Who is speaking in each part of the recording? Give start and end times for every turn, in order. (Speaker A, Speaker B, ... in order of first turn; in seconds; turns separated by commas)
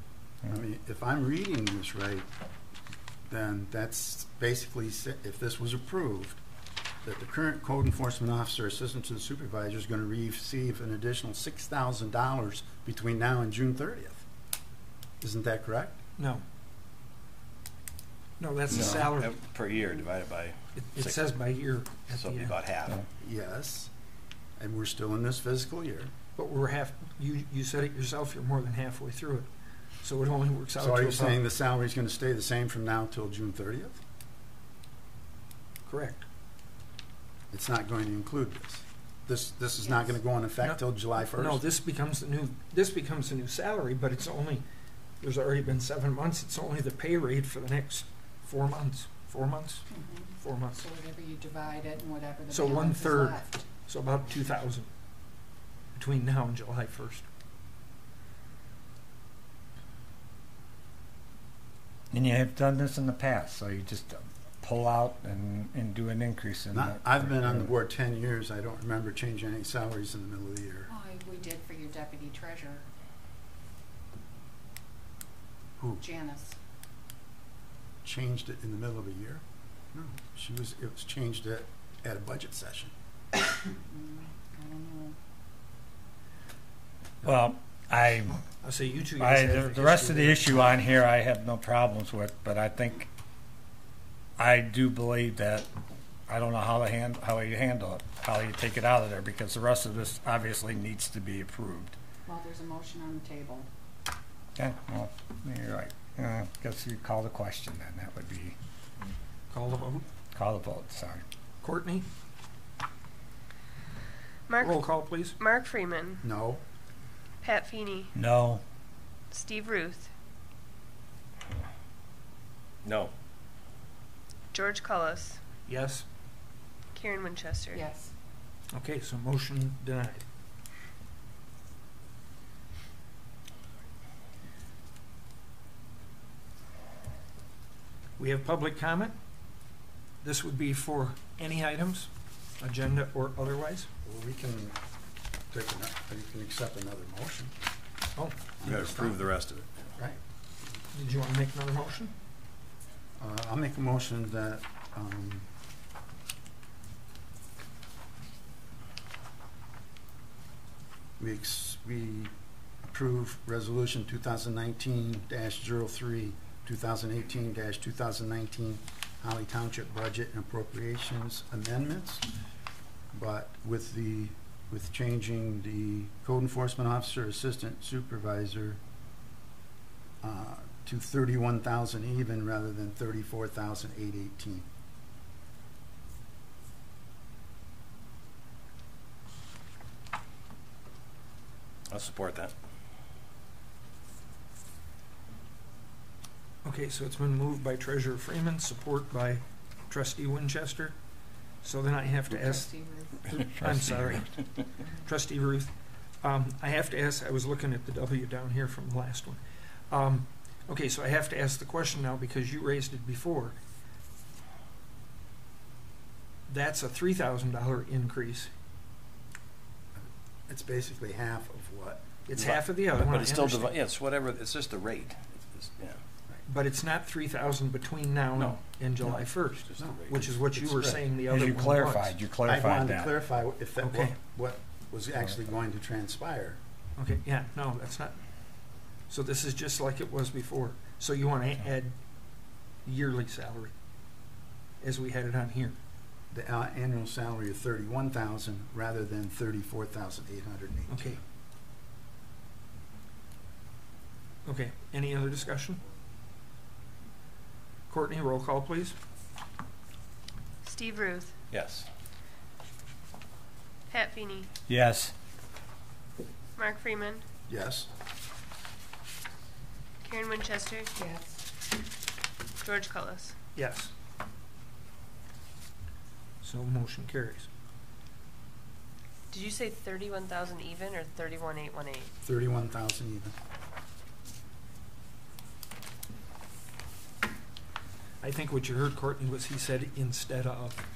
Speaker A: 0.5-2.3, Speaker A: 3.3-6.4, Speaker A: 7.0-14.2, Speaker A: 15.2-16.0, Speaker B: 16.2-16.4, Speaker B: 18.4-19.3, Speaker C: 18.7-21.4, Speaker A: 18.7-19.1, Speaker B: 20.8-22.6, Speaker C: 22.1-23.0, Speaker A: 23.2-23.9, Speaker A: 24.6-26.1, Speaker B: 26.4-29.5, Speaker B: 30.0-31.4, Speaker A: 30.8-34.0, Speaker B: 35.8-36.2, Speaker A: 37.5-41.6, Speaker B: 40.6-44.6, Speaker B: 45.2-49.9, Speaker D: 49.9-53.6, Speaker B: 50.4-50.9, Speaker B: 52.5-54.9, Speaker B: 56.0-57.2, Speaker E: 62.1-67.7, Speaker A: 66.7-70.9, Speaker D: 70.9-72.8, Speaker A: 75.8-76.0, Speaker D: 76.0-76.5, Speaker A: 78.0-79.4, Speaker A: 79.9-82.9, Speaker D: 83.3-85.2, Speaker E: 87.2-88.4, Speaker B: 88.6-90.8, Speaker E: 89.2-93.1, Speaker E: 94.4-95.7, Speaker E: 96.3-102.0, Speaker D: 102.2-103.7, Speaker E: 104.6-108.5, Speaker B: 109.5-110.0, Speaker E: 110.3-111.2, Speaker B: 111.6-112.0, Speaker F: 114.5-114.8, Speaker B: 114.6-115.4, Speaker F: 115.4-116.2, Speaker A: 116.2-116.6, Speaker F: 117.4-118.1, Speaker E: 118.1-118.6, Speaker F: 119.3-120.1, Speaker C: 122.8-123.1, Speaker F: 124.5-125.4, Speaker B: 125.7-126.0, Speaker F: 126.9-127.8, Speaker D: 127.7-128.1, Speaker B: 128.7-130.2, Speaker B: 138.2-139.1, Speaker B: 140.2-143.9, Speaker A: 144.0-144.8, Speaker A: 145.5-147.5, Speaker A: 148.6-149.3, Speaker C: 148.6-149.7, Speaker B: 150.9-152.1, Speaker A: 153.2-155.4, Speaker A: 161.2-162.3, Speaker A: 162.9-172.2, Speaker A: 173.1-178.8, Speaker A: 180.2-184.7, Speaker C: 191.9-192.5, Speaker B: 196.6-201.0, Speaker B: 201.6-213.6, Speaker D: 202.3-203.3, Speaker E: 203.6-204.2, Speaker B: 216.5-218.5, Speaker A: 219.9-222.1, Speaker B: 222.3-223.7, Speaker C: 222.3-226.0, Speaker B: 226.5-232.1, Speaker C: 228.3-228.6, Speaker C: 229.5-230.5, Speaker A: 229.8-231.0, Speaker E: 231.3-233.1, Speaker A: 232.4-236.6, Speaker B: 233.8-234.2, Speaker B: 237.0-238.2, Speaker B: 239.1-242.0, Speaker B: 242.8-243.7, Speaker B: 244.8-245.8, Speaker A: 246.3-251.2, Speaker B: 250.9-251.2, Speaker B: 254.4-255.8, Speaker B: 257.9-258.9, Speaker F: 260.6-261.3, Speaker C: 261.5-261.9, Speaker F: 263.9-264.5, Speaker E: 264.7-265.1, Speaker F: 266.6-267.2, Speaker A: 267.5-267.9, Speaker F: 270.0-270.9, Speaker D: 270.9-271.4, Speaker F: 272.6-273.3, Speaker B: 273.5-273.9, Speaker B: 276.4-277.5, Speaker F: 279.3-282.1, Speaker A: 282.2-283.3, Speaker B: 288.2-290.8